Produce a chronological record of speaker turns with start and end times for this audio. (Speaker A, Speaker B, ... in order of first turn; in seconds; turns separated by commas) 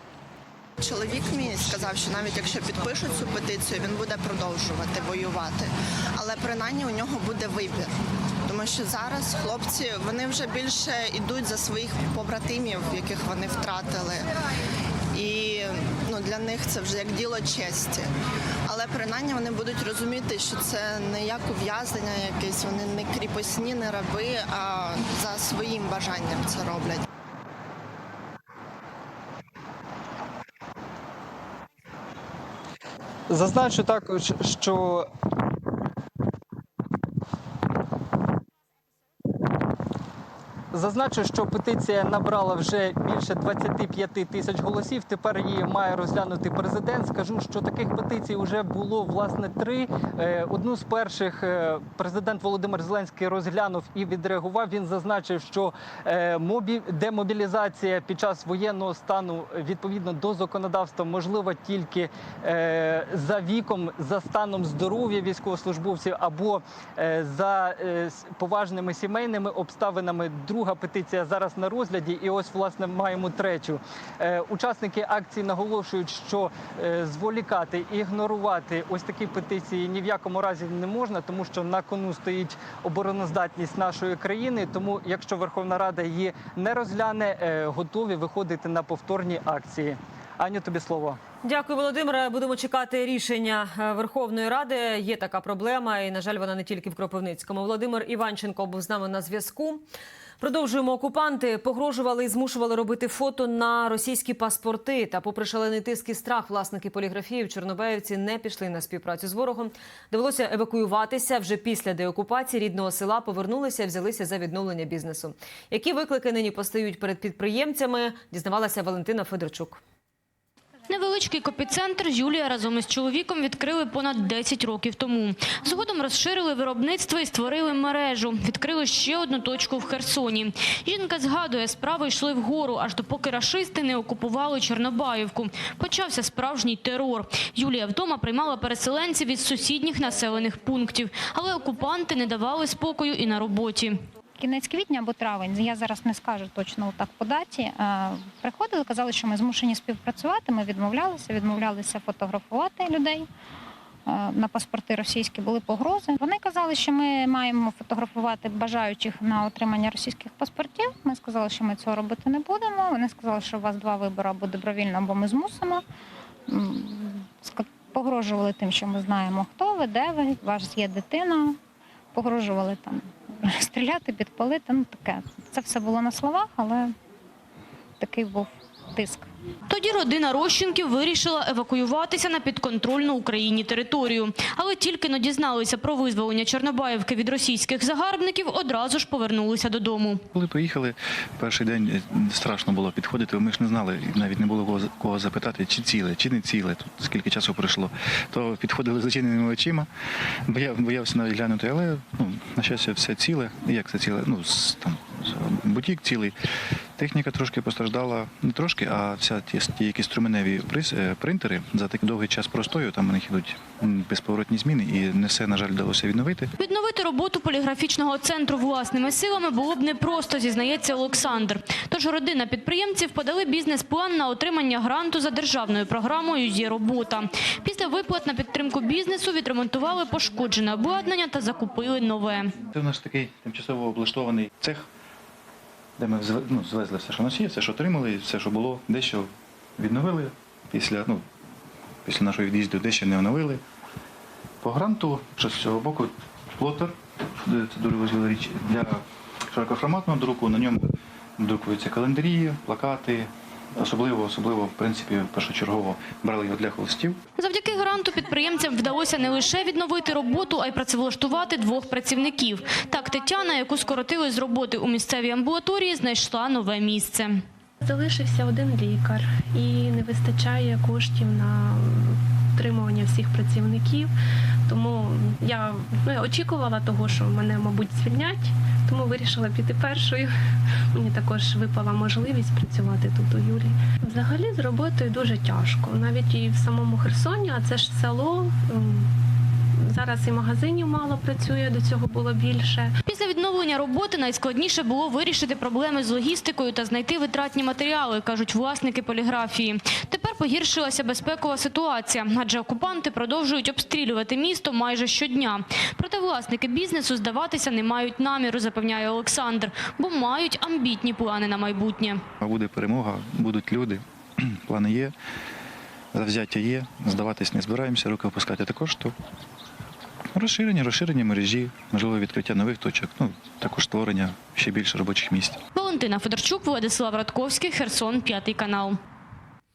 Speaker A: 0.8-7.9, Speaker A: 8.5-14.3, Speaker A: 15.1-18.1, Speaker A: 18.7-27.0, Speaker B: 33.3-35.1, Speaker B: 40.7-91.2, Speaker C: 91.4-99.8, Speaker C: 100.4-119.8, Speaker D: 120.9-144.0, Speaker E: 144.4-153.3, Speaker E: 154.1-165.8, Speaker E: 166.5-171.6, Speaker E: 172.1-176.9, Speaker E: 178.0-179.3, Speaker D: 179.7-190.2, Speaker F: 190.3-199.9, Speaker F: 200.4-206.3, Speaker F: 206.9-216.5, Speaker D: 216.6-232.6, Speaker F: 232.7-234.9, Speaker F: 236.0-241.2, Speaker F: 242.0-243.6, Speaker F: 244.6-257.2, Speaker D: 257.4-267.4, Speaker G: 267.8-274.1, Speaker G: 274.7-280.3, Speaker G: 280.9-289.1, Speaker G: 289.7-292.9, Speaker D: 293.1-312.2, Speaker F: 312.4-315.1, Speaker F: 316.1-319.1, Speaker F: 320.3-325.6, Speaker D: 325.7-329.0